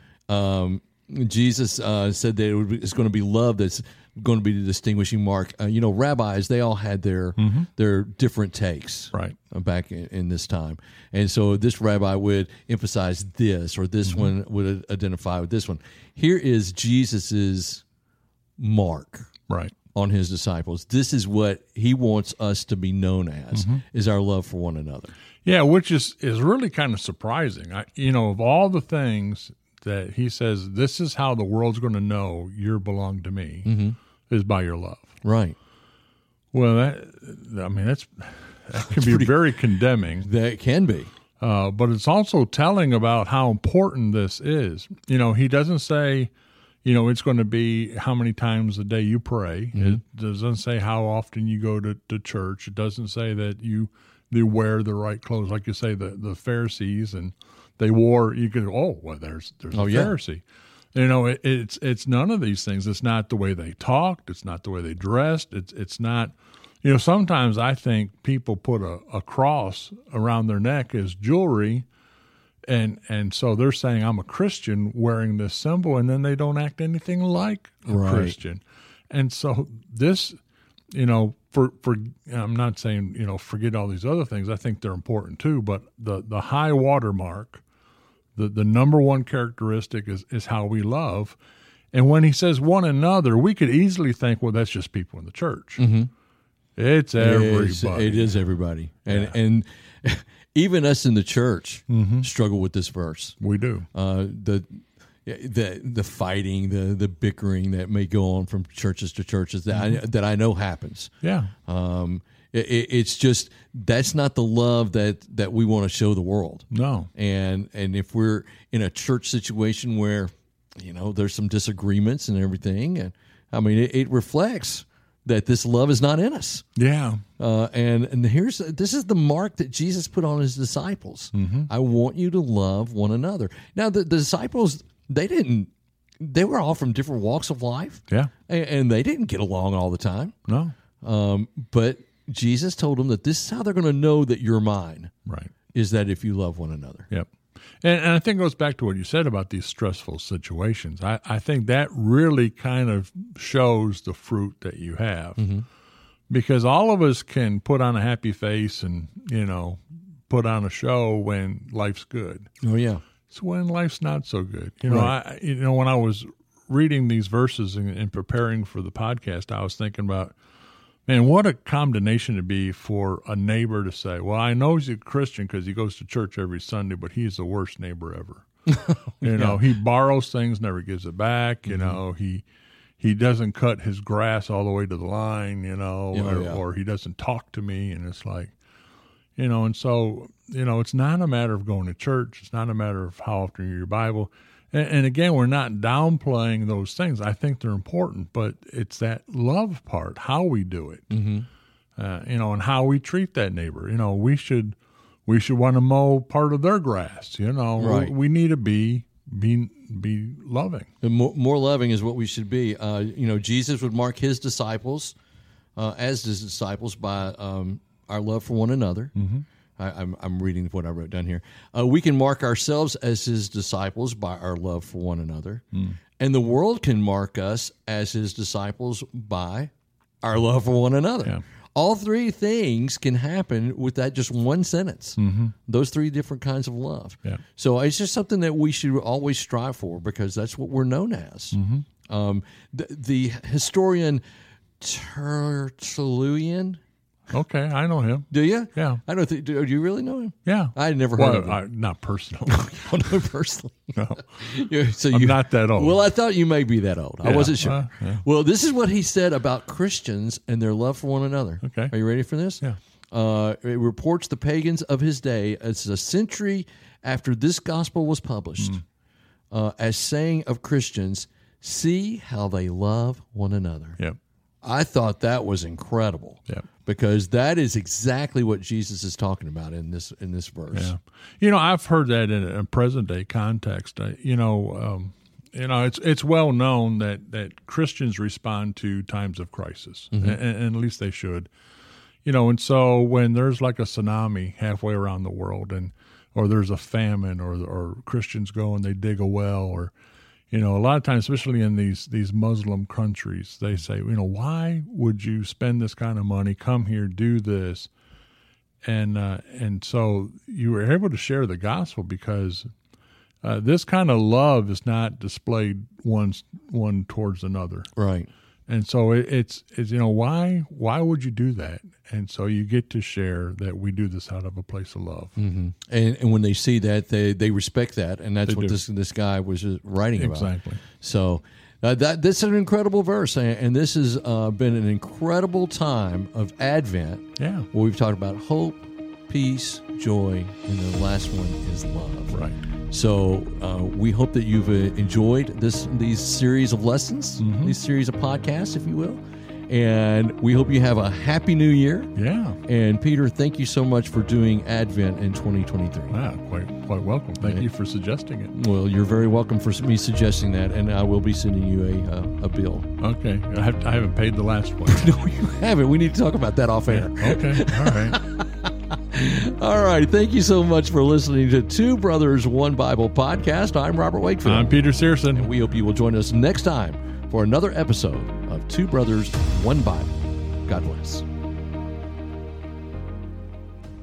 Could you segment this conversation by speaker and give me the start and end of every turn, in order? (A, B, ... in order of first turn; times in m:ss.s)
0:00.3-0:17.8 A
0:07.4-0:07.7 B
0:14.1-0:14.3 B
0:18.6-0:19.3 A
0:19.5-0:19.7 B
0:19.9-0:25.1 A
0:23.5-0:23.8 B
0:25.4-0:33.7 B
0:33.6-0:34.0 A
0:34.3-0:35.2 B
0:35.2-0:35.6 A
0:36.5-0:40.3 B
0:38.9-0:39.4 A
0:40.2-0:41.1 A
0:41.4-0:46.3 B
0:46.8-1:00.4 B
0:49.8-0:50.0 A
0:59.7-1:00.2 A
1:00.9-1:11.9 B
1:12.7-1:20.4 B
1:17.9-1:18.4 A
1:20.9-1:27.6 B
1:28.4-1:31.4 B
1:31.9-1:35.8 B
1:35.8-1:36.1 A
1:36.8-1:38.4 B
1:37.2-1:43.4 A
1:39.1-1:39.3 B
1:41.9-1:42.3 B
1:43.4-1:43.9 B
1:43.9-1:51.1 A
1:49.7-1:50.0 B
1:51.2-1:51.5 B
1:51.7-2:06.6 A
1:56.7-1:57.1 B
2:06.8-2:07.2 B
2:07.4-2:20.4 A
2:11.3-2:11.7 B
2:20.5-2:20.7 B
2:21.0-2:25.1 A
2:25.3-2:25.5 B
2:25.7-2:27.1 A
2:27.8-2:35.4 B
2:35.4-2:35.7 A
2:36.3-2:42.5 B
2:42.6-2:43.0 A
2:43.3-2:50.4 B
2:44.9-2:45.1 A
2:51.1-3:02.4 B
2:58.7-2:59.6 A
3:01.7-3:02.0 A
3:03.0-3:08.6 B
3:06.1-3:06.6 A
3:09.4-3:21.1 B
3:21.1-3:21.5 A
3:22.0-3:24.8 B
3:25.3-3:30.9 B
3:27.8-3:28.1 A
3:31.0-3:35.2 A
3:35.8-3:39.1 A
3:39.2-3:39.4 B
3:39.8-3:45.6 A
3:46.2-3:49.7 A
3:50.2-4:04.2 A
3:55.2-3:55.5 B
4:01.5-4:01.9 B
4:04.8-4:06.8 A
4:07.3-4:09.0 B
4:08.3-4:11.6 A
4:10.5-4:12.7 B
4:12.4-4:28.8 A
4:14.0-4:14.2 B
4:15.1-4:16.0 B
4:17.2-4:18.2 B
4:21.6-4:21.9 B
4:29.5-4:34.0 A
4:34.6-4:40.9 A
4:40.7-4:51.5 B
4:50.1-4:50.4 A
4:52.2-4:59.9 B
5:00.5-5:07.9 B
5:08.8-5:12.7 B
5:13.4-5:17.9 B
5:18.0-5:18.3 A
5:18.7-5:25.4 B
5:25.4-5:52.1 A
5:28.5-5:28.8 B
5:30.2-5:30.8 B
5:37.4-5:37.7 B
5:42.3-5:42.6 B
5:47.4-5:47.8 B
5:52.2-5:52.6 B
5:52.6-5:56.2 A
5:56.1-5:58.6 B
5:58.5-6:02.9 A
6:03.0-6:05.1 B
6:04.9-6:20.1 A
6:06.9-6:08.2 B
6:14.4-6:15.5 B
6:20.7-6:21.2 A